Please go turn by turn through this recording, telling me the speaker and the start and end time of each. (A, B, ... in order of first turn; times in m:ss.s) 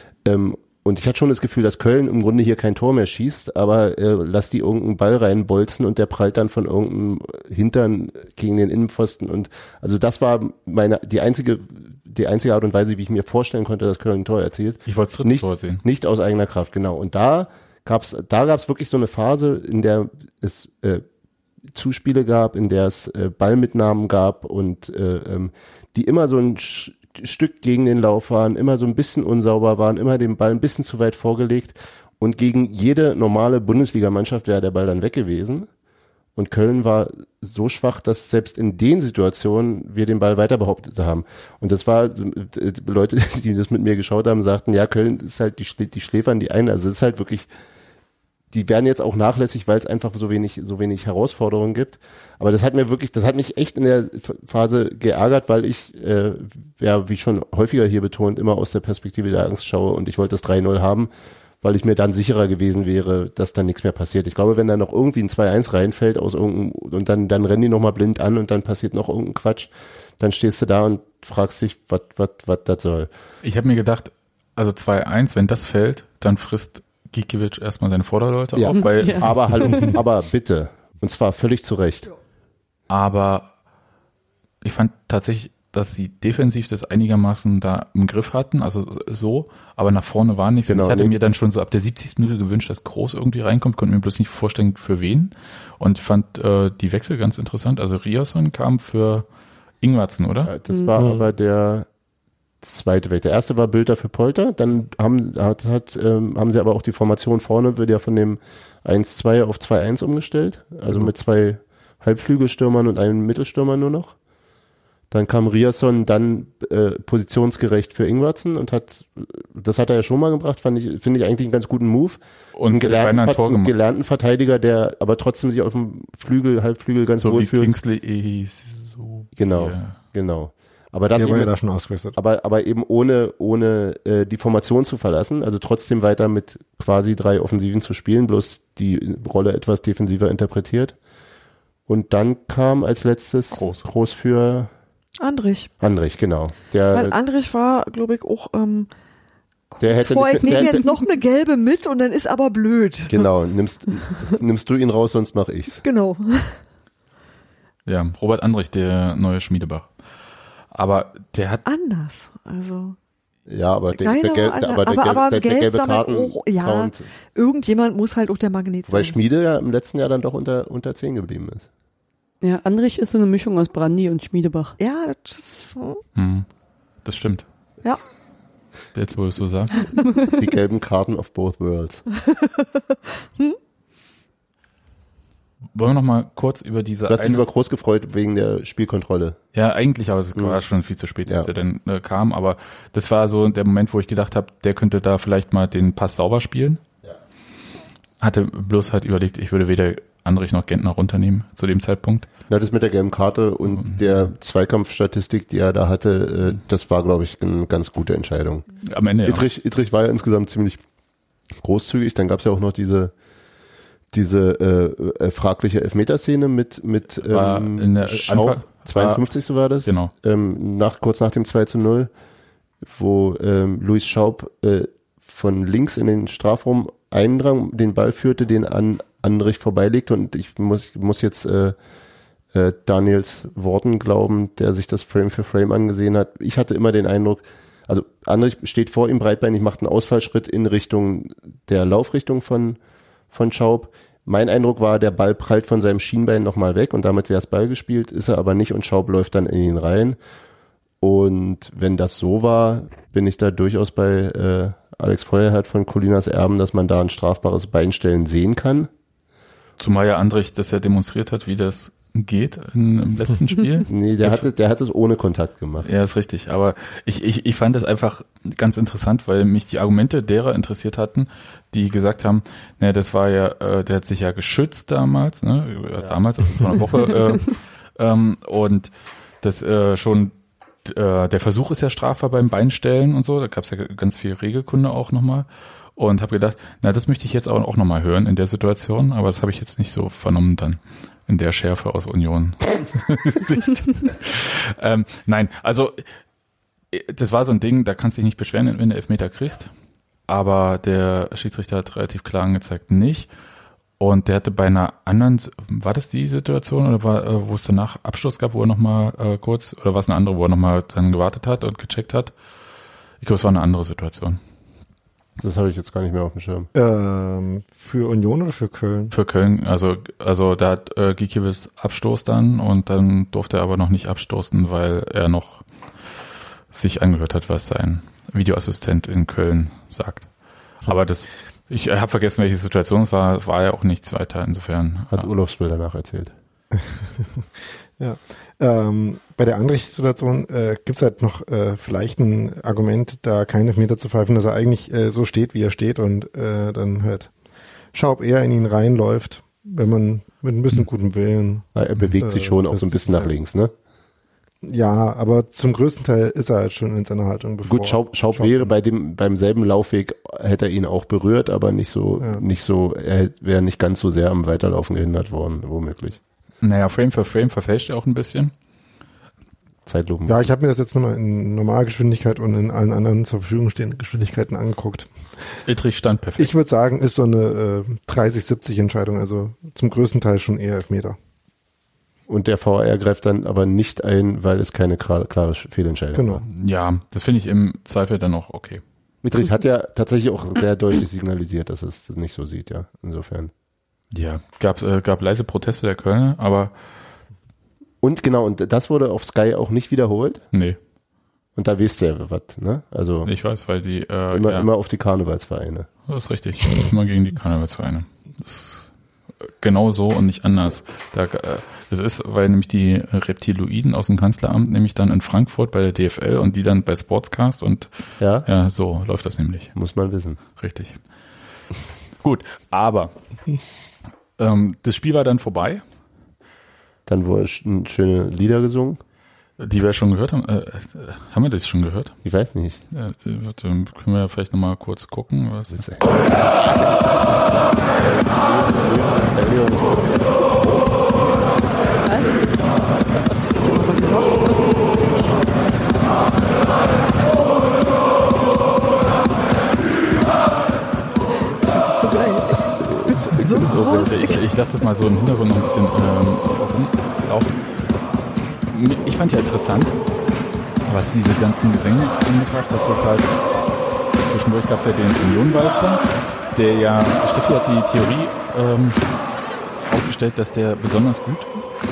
0:00.2-0:21.0 A
0:14.9-0:15.8 B
0:21.7-0:35.7 A
0:36.4-0:47.5 A
0:48.5-1:01.1 A
1:01.6-1:13.1 A
1:13.4-1:19.6 B
1:18.6-1:22.1 A
1:18.7-1:19.9 C
1:22.9-1:23.5 B
1:24.6-1:39.3 B
1:30.7-1:31.2 A
1:39.8-1:40.5 B
1:40.5-1:41.9 A
1:41.0-1:41.2 D
1:42.6-1:54.2 A
1:55.1-2:07.7 A
2:02.6-2:03.7 B
2:07.2-2:10.0 B
2:09.4-2:11.5 A
2:11.2-2:12.2 D
2:12.2-2:21.0 A
2:21.9-2:24.7 A
2:23.5-2:23.8 B
2:25.2-2:25.7 E
2:25.8-2:27.2 A
2:26.9-2:28.9 E
2:29.7-2:33.3 E
2:29.8-2:30.9 A
2:33.1-2:35.8 A
2:35.8-2:36.6 E
2:37.9-2:39.9 B
2:40.7-2:41.6 B
2:41.6-2:43.0 E
2:43.5-2:47.1 A
2:44.0-2:49.2 E
2:48.9-2:51.7 A
2:52.4-2:54.8 C
2:54.8-2:56.0 E
2:56.2-2:56.5 B
2:57.0-2:57.5 B
2:58.9-2:59.9 B
3:00.3-3:02.0 A
3:02.3-3:02.7 E
3:05.8-3:07.4 B
3:07.1-3:09.4 A
3:09.5-3:16.8 B
3:18.2-3:22.3 B
3:22.5-3:28.7 A
3:23.8-3:24.3 B
3:28.8-3:29.4 B
3:29.2-3:30.8 A
3:31.6-3:33.1 A
3:34.1-3:42.1 A
3:37.2-3:39.2 B
3:39.8-3:40.1 B
3:42.8-3:51.8 A
3:52.5-4:02.8 A
4:03.3-4:10.2 A
4:11.0-4:18.9 A
4:19.8-4:24.5 B
4:23.9-4:25.9 A
4:25.8-4:38.9 B
4:39.4-4:56.0 B
4:56.9-4:59.7 B
5:00.3-5:03.3 B
5:04.0-5:12.3 B
5:13.2-5:14.4 B
5:15.4-5:16.7 A
5:16.7-5:19.1 D
5:19.1-5:25.6 B
5:26.7-5:30.3 B
5:30.8-5:35.3 B
5:35.1-5:36.3 A
5:36.8-5:37.5 D
5:38.0-5:47.3 D
5:47.9-5:51.7 D
5:51.8-5:53.7 A
5:52.2-5:53.3 D
5:54.6-5:58.7 D
5:57.7-6:06.2 A
6:06.6-6:08.5 B
6:09.9-6:10.4 A
6:10.3-6:15.1 D
6:15.7-6:16.5 B
6:16.4-6:21.2 D
6:22.3-6:26.4 A
6:26.1-6:26.4 D
6:26.4-6:28.8 B
6:29.2-6:33.5 A
6:34.1-6:36.7 B
6:38.0-6:40.4 A
6:40.5-6:40.8 B
6:41.6-6:43.3 A
6:43.3-6:44.7 B
6:44.3-6:45.9 A
6:46.1-6:48.9 B
6:49.5-6:57.9 B
6:58.2-6:58.5 A
6:58.4-6:59.7 B
6:59.8-7:00.4 A
7:00.6-7:01.0 B
7:02.2-7:03.1 B
7:04.4-7:05.8 B
7:07.1-7:09.0 A
7:09.6-7:12.2 B
7:12.2-7:12.8 A
7:12.9-7:15.8 B
7:15.7-7:17.0 A
7:18.0-7:21.0 A
7:22.0-7:22.4 C
7:23.6-7:24.7 E
7:31.6-7:34.4 E
7:32.8-7:34.4 A
7:33.7-7:37.6 B
7:38.7-7:40.0 B
7:40.9-7:43.3 B
7:44.2-7:46.0 B
7:46.5-7:49.0 B
7:49.9-7:51.7 B